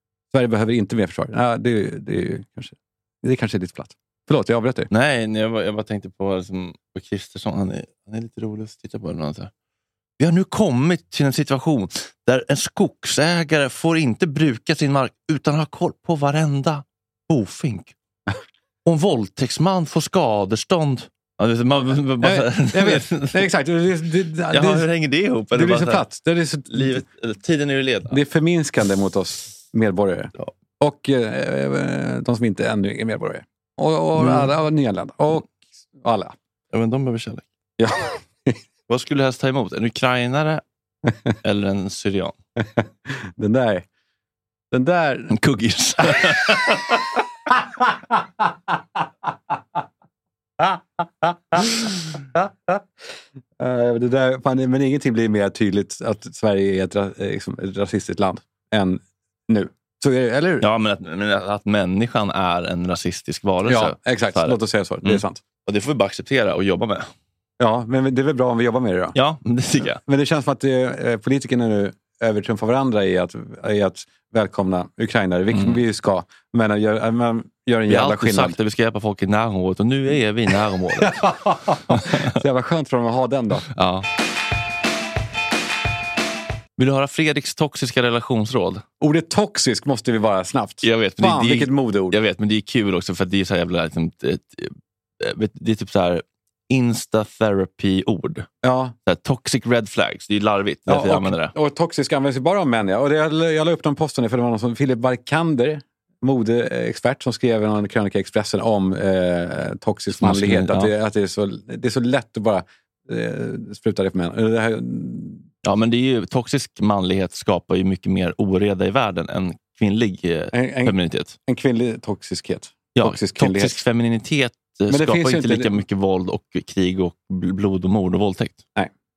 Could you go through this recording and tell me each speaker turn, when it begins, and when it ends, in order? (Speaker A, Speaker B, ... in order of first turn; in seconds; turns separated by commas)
Speaker A: 0.3-4.9, Speaker B: 4.9-9.5, Speaker B: 10.2-17.9, Speaker B: 18.9-23.4, Speaker A: 22.2-24.9, Speaker B: 24.5-26.0, Speaker A: 25.5-27.0, Speaker B: 26.7-28.2, Speaker A: 28.1-36.3, Speaker B: 34.2-34.5, Speaker B: 36.7-37.4, Speaker A: 37.8-38.6, Speaker B: 38.9-40.6, Speaker B: 41.4-42.4, Speaker A: 42.7-43.8, Speaker A: 44.7-45.4, Speaker B: 45.3-47.0, Speaker A: 46.0-46.3, Speaker A: 47.8-48.5, Speaker A: 50.6-52.9, Speaker A: 53.6-60.6, Speaker B: 60.6-67.1, Speaker A: 63.6-65.4, Speaker A: 67.6-69.2, Speaker B: 69.1-70.0, Speaker A: 70.0-78.5, Speaker B: 75.5-75.8, Speaker B: 77.9-82.2, Speaker A: 81.0-83.7, Speaker B: 83.7-84.1, Speaker B: 86.8-88.8, Speaker A: 89.0-92.2, Speaker B: 90.8-98.5, Speaker A: 98.6-98.9, Speaker B: 99.1-101.5, Speaker A: 100.9-115.5, Speaker B: 110.2-110.9, Speaker B: 115.6-121.3, Speaker A: 120.5-121.0, Speaker A: 121.5-123.8, Speaker B: 123.0-128.6, Speaker A: 124.9-125.8